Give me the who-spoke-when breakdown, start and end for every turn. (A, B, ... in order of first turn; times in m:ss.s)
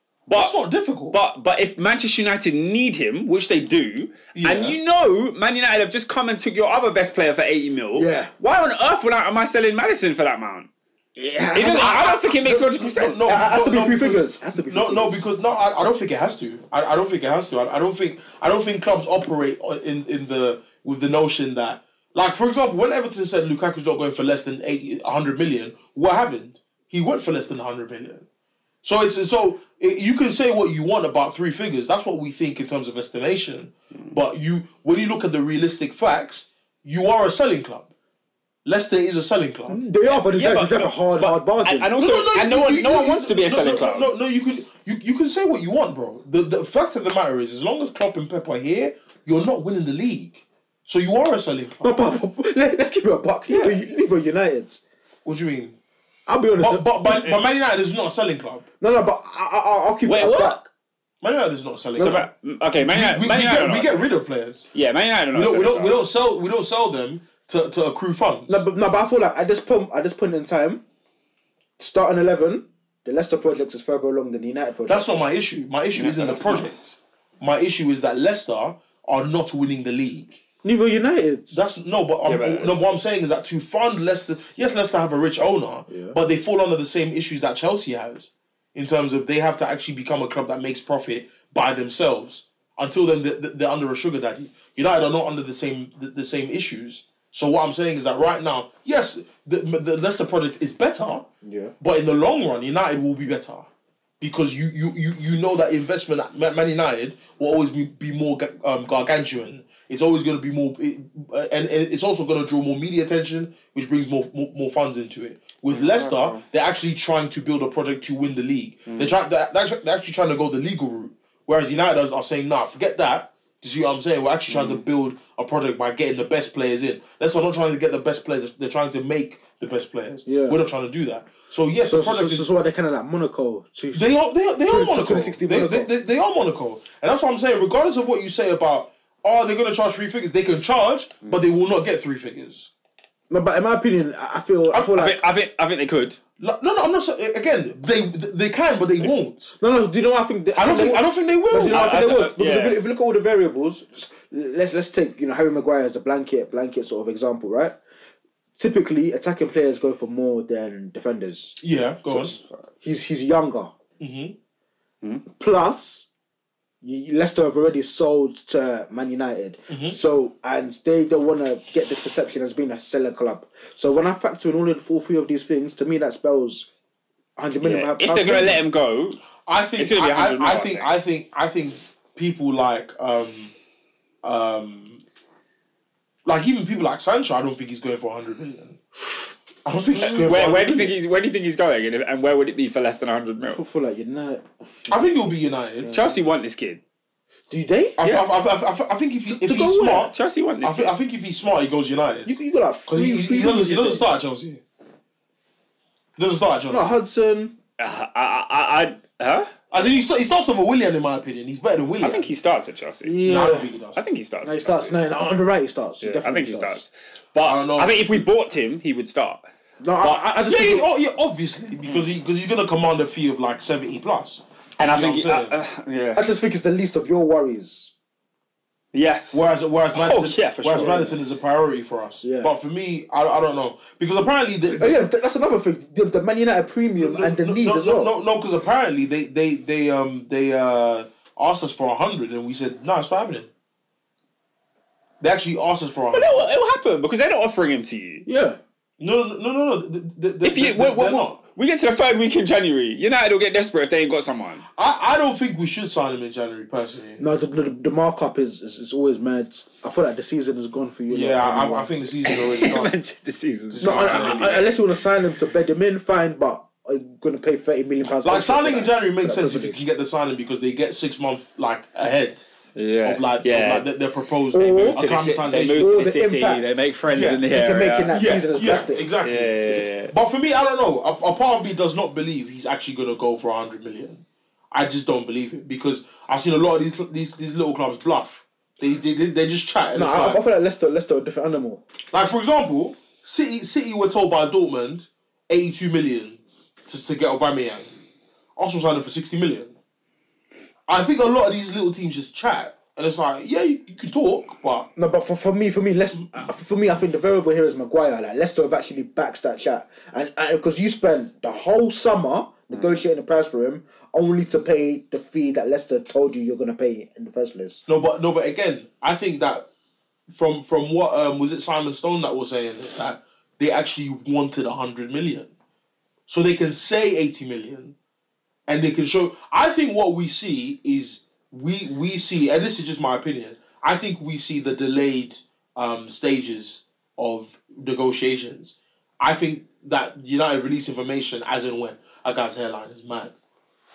0:00.3-0:00.5 A
0:00.3-0:01.2 B
0:01.1-0:10.7 A
0:04.3-0:04.8 B
0:07.9-0:08.3 C
0:11.2-0:12.2 C
0:11.5-0:13.3 A
0:11.5-0:28.2 B
0:13.2-0:15.2 C
0:28.8-0:37.9 B
0:38.6-0:39.8 B
0:39.7-0:41.9 C
0:40.0-0:44.1 A
0:42.0-0:52.0 B
0:51.8-0:54.8 C
0:53.5-0:53.8 A
0:55.2-0:55.8 B
0:56.3-0:57.2 C
0:56.6-0:58.6 B
0:58.8-1:00.7 C
1:00.0-1:00.6 A
1:01.2-1:02.2 B
1:02.0-1:02.2 C
1:02.0-1:04.1 A
1:02.8-1:04.7 B
1:04.7-1:06.0 A
1:05.3-1:08.6 B
1:08.5-1:10.8 C
1:11.8-1:15.2 C
1:14.9-1:20.4 B
1:15.9-1:16.7 A
1:20.6-1:21.6 C
1:21.5-1:41.2 B
1:22.2-1:22.8 A
1:25.9-1:26.2 C
1:41.4-1:41.7 C
1:41.8-1:43.7 B
1:44.2-2:12.5 B
1:55.7-1:56.4 A
1:58.9-1:59.1 A
2:04.5-2:04.8 A
2:10.2-2:10.6 C
2:11.8-2:14.1 C
2:13.9-2:22.7 B
2:14.6-2:15.9 C
2:23.3-2:25.2 C
2:24.7-2:26.2 A
2:26.4-2:29.6 B
2:29.6-2:37.8 C
2:30.5-2:32.0 B
2:31.7-2:32.8 A
2:38.6-2:43.7 C
2:41.6-2:42.4 B
2:44.0-2:44.3 B
2:45.3-2:46.1 C
2:46.8-2:56.7 C
2:49.7-2:50.0 B
2:57.4-2:58.6 C
2:57.6-2:59.2 A
2:59.4-3:03.5 B
2:59.8-3:00.9 A
3:04.2-3:05.0 B
3:06.2-3:10.9 B
3:10.0-3:13.6 A
3:13.5-3:14.9 C
3:14.9-3:15.9 B
3:15.8-3:16.1 C
3:15.9-3:16.8 A
3:17.5-3:18.1 C
3:18.0-3:24.6 B
3:19.2-3:20.1 C
3:20.1-3:20.9 A
3:22.2-3:24.0 C
3:26.2-3:26.9 B
3:26.7-3:27.5 C
3:27.8-3:29.5 A
3:29.7-3:32.3 B
3:32.0-3:33.2 A
3:33.0-3:33.7 C
3:33.2-3:34.0 B
3:33.9-3:35.0 A
3:34.4-3:36.8 C
3:36.0-3:39.4 A
3:37.4-3:38.1 B
3:39.8-3:40.8 C
3:40.0-3:45.5 B
3:44.8-3:46.2 A
3:46.1-3:47.9 C
3:48.9-3:51.1 A
3:49.3-3:55.0 B
3:50.7-3:51.2 C
3:52.2-3:52.5 C
3:54.7-3:58.1 C
3:57.0-4:03.5 B
4:05.2-4:06.4 B
4:06.1-4:08.2 A
4:08.2-4:08.6 C
4:09.0-4:11.4 B
4:10.4-4:14.6 A
4:14.8-4:17.2 B
4:17.2-4:21.9 C
4:21.1-4:22.9 B
4:22.2-4:24.8 A
4:23.7-4:24.5 B
4:23.8-4:29.8 C
4:28.2-4:32.4 B
4:32.7-4:33.9 A
4:33.0-4:35.9 B
4:34.5-4:35.0 C
4:34.8-4:38.7 A
4:35.7-4:36.6 C
4:37.1-4:37.5 B
4:37.5-4:39.0 C
4:38.1-4:50.4 B
4:39.2-4:40.1 A
4:49.9-4:51.8 C
4:52.1-4:57.9 B
4:58.6-4:59.7 B
5:00.9-5:04.9 B
5:05.0-5:17.8 C
5:17.9-5:19.7 B
5:20.3-5:25.5 B
5:26.3-5:27.9 B
5:28.7-5:43.4 B